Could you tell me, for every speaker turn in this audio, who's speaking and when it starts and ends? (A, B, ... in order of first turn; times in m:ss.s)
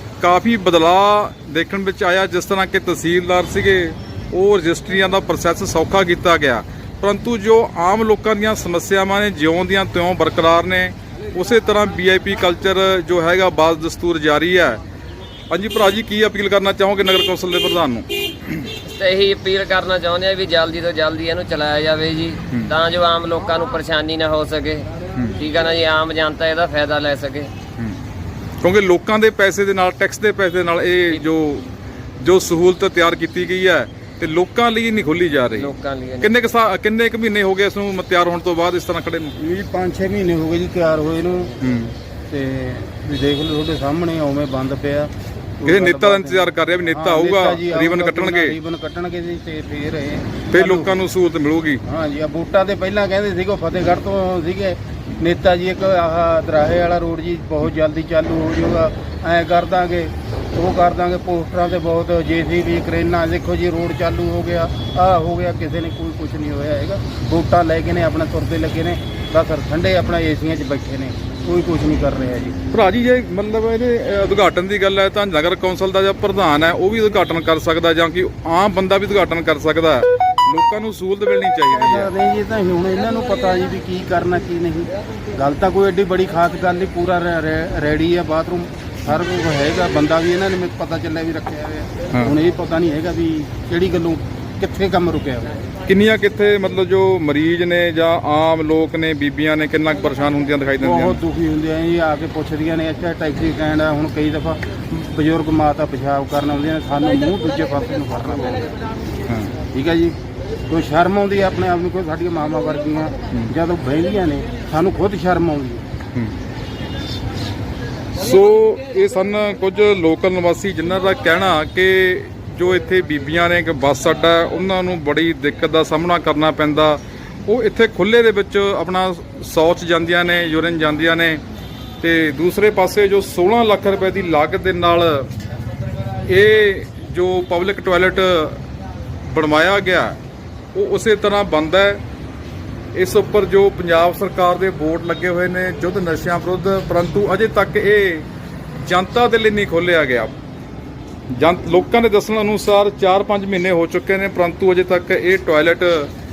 0:00.2-0:14.8 A
0:15.5-0:18.1 A
0:18.8-0:27.5 B
0:25.1-0:25.4 A
0:28.6-0:39.4 A
0:35.6-0:36.3 B
0:39.4-0:41.6 C
0:41.6-0:41.9 A
0:42.3-0:51.0 C
0:45.6-0:48.6 A
0:50.5-0:51.8 A
0:51.8-1:12.6 C
1:12.7-1:22.1 A
1:21.7-1:35.6 C
1:35.8-1:41.2 A
1:40.8-1:48.9 C
1:49.3-1:49.5 A
1:49.7-1:50.2 C
1:50.7-1:55.8 C
1:58.1-2:11.4 A
2:12.0-2:15.3 A
2:16.3-2:18.6 A
2:19.3-2:20.2 A
2:20.7-2:22.0 A
2:22.9-2:28.3 A
2:28.8-2:30.3 A
2:31.3-2:36.1 A